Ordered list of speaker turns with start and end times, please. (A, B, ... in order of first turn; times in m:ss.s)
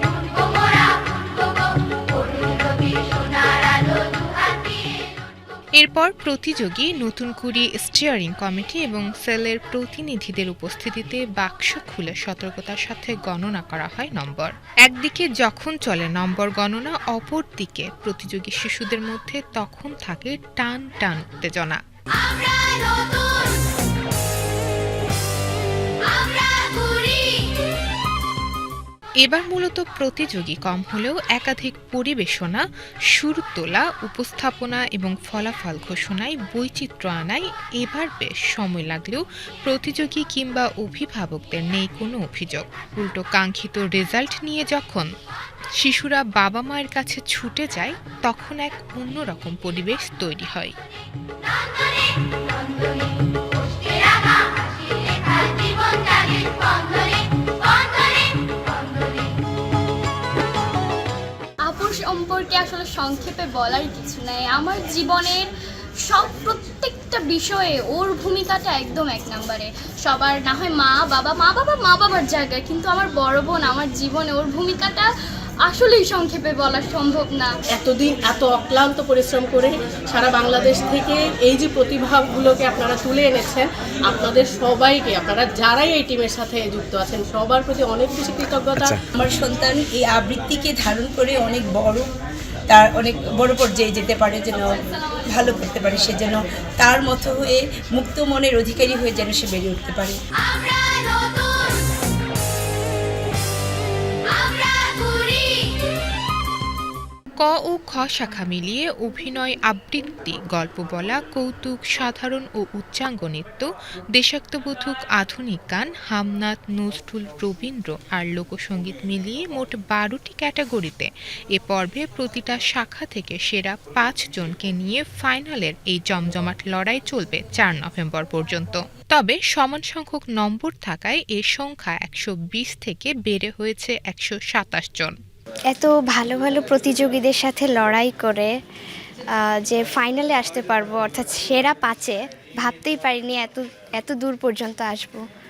0:05.8-0:21.8 A
0:29.2-0:45.1 A
0:45.8-0:50.7 A
1:01.6-1:05.5 B
1:06.0-1:15.1 B
1:15.6-1:17.5 B
1:17.7-1:29.0 C
1:29.2-1:32.0 D
1:32.7-1:34.8 D
1:35.3-1:40.2 D
1:47.4-2:15.2 A
2:15.7-2:18.5 E
2:19.3-2:25.2 E